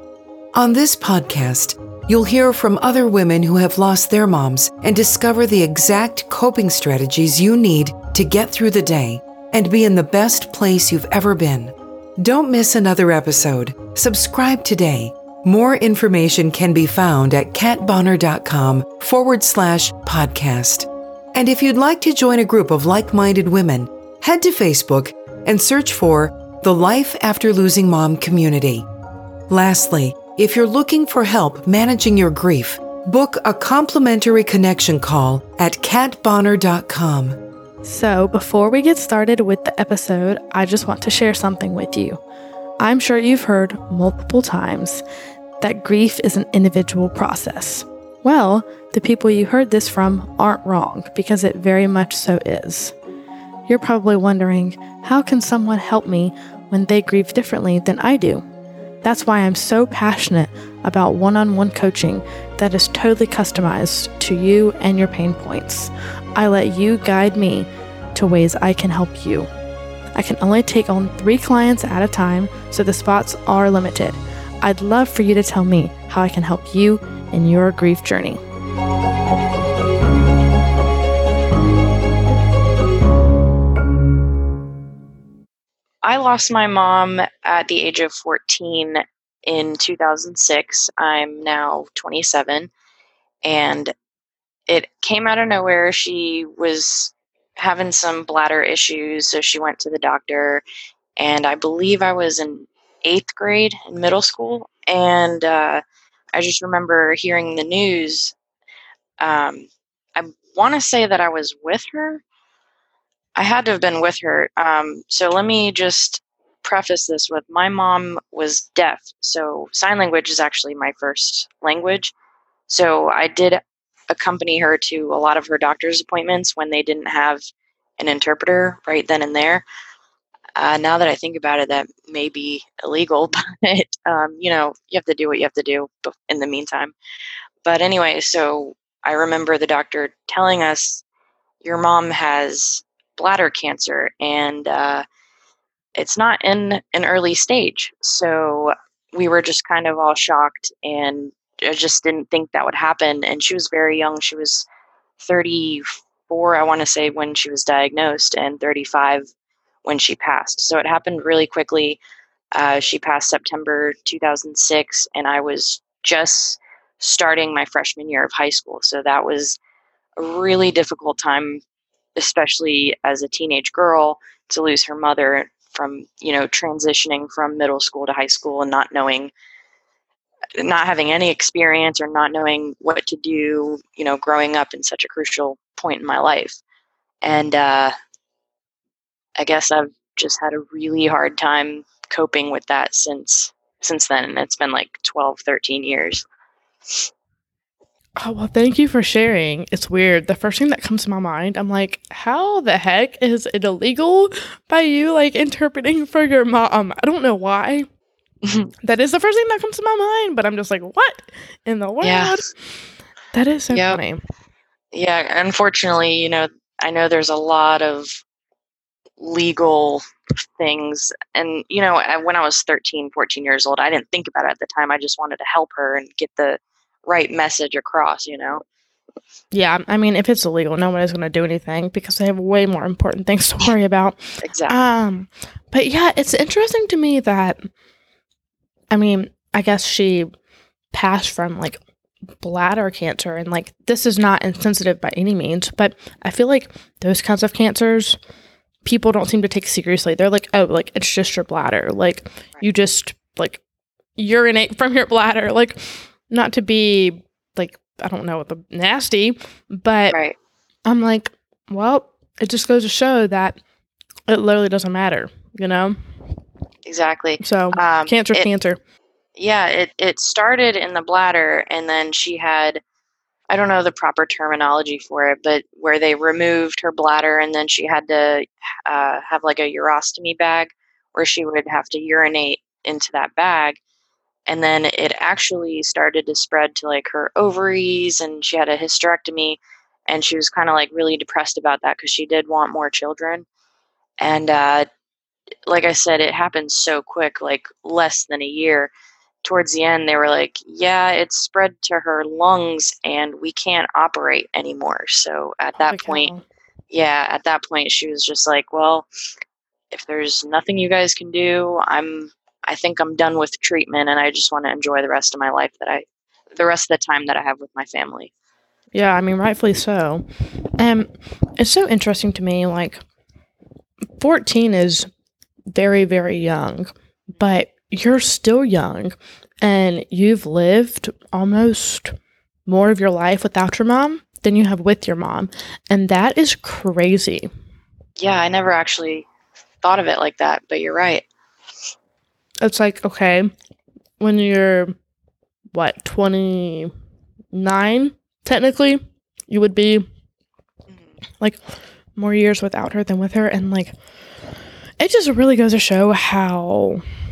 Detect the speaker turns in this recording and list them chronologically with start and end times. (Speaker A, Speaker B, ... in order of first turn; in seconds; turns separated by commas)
Speaker A: 0.5-28.9, Speaker A: 29.5-37.4, Speaker B: 37.8-42.2, Speaker B: 42.8-45.0, Speaker B: 45.6-52.9, Speaker B: 53.7-58.4, Speaker B: 59.0-69.5, Speaker B: 70.1-78.4, Speaker C: 86.0-92.7, Speaker C: 93.4-93.9, Speaker C: 94.7-100.6, Speaker C: 101.2-105.8, Speaker C: 106.3-108.3, Speaker C: 109.2-112.2, Speaker C: 113.3-122.1, Speaker C: 122.7-127.4, Speaker C: 128.0-129.6, Speaker C: 130.6-136.9, Speaker C: 137.6-141.0, Speaker C: 141.6-145.0, Speaker C: 145.9-154.7, Speaker C: 155.2-159.3, Speaker C: 159.8-162.0, Speaker C: 162.5-169.6, Speaker C: 170.2-171.6, Speaker C: 172.2-179.3, Speaker C: 180.6-186.6, Speaker C: 187.2-187.9, Speaker C: 189.4-196.2, Speaker B: 198.2-207.9, Speaker C: 208.4-208.7, Speaker B: 208.8-212.5, Speaker C: 212.0-212.4, Speaker B: 213.3-214.2, Speaker C: 213.7-214.0, Speaker C: 214.9-218.2, Speaker C: 219.2-228.6, Speaker B: 229.5-237.6, Speaker C: 234.4-234.8, Speaker B: 238.9-240.3, Speaker B: 240.9-241.8, Speaker B: 242.4-248.2, Speaker B: 248.8-253.6, Speaker B: 254.2-260.2, Speaker C: 260.1-260.4, Speaker B: 260.9-263.6, Speaker B: 264.3-265.9, Speaker C: 266.9-268.4, Speaker B: 267.4-268.8, Speaker C: 269.4-272.8, Speaker C: 273.5-283.8, Speaker C: 284.5-293.4, Speaker C: 294.2-294.9, Speaker C: 295.7-298.9, Speaker C: 299.4-306.3, Speaker B: 305.9-306.4, Speaker C: 306.9-309.1, Speaker C: 309.9-316.0, Speaker C: 316.6-318.3, Speaker B: 318.9-323.0, Speaker B: 324.2-325.1, Speaker B: 325.7-332.1, Speaker B: 332.7-337.5, Speaker C: 338.2-339.3, Speaker C: 339.8-341.2, Speaker B: 342.6-343.5, Speaker B: 344.2-344.9, Speaker B: 345.7-346.9, Speaker B: 347.5-350.0, Speaker B: 352.2-353.9, Speaker B: 355.0-357.0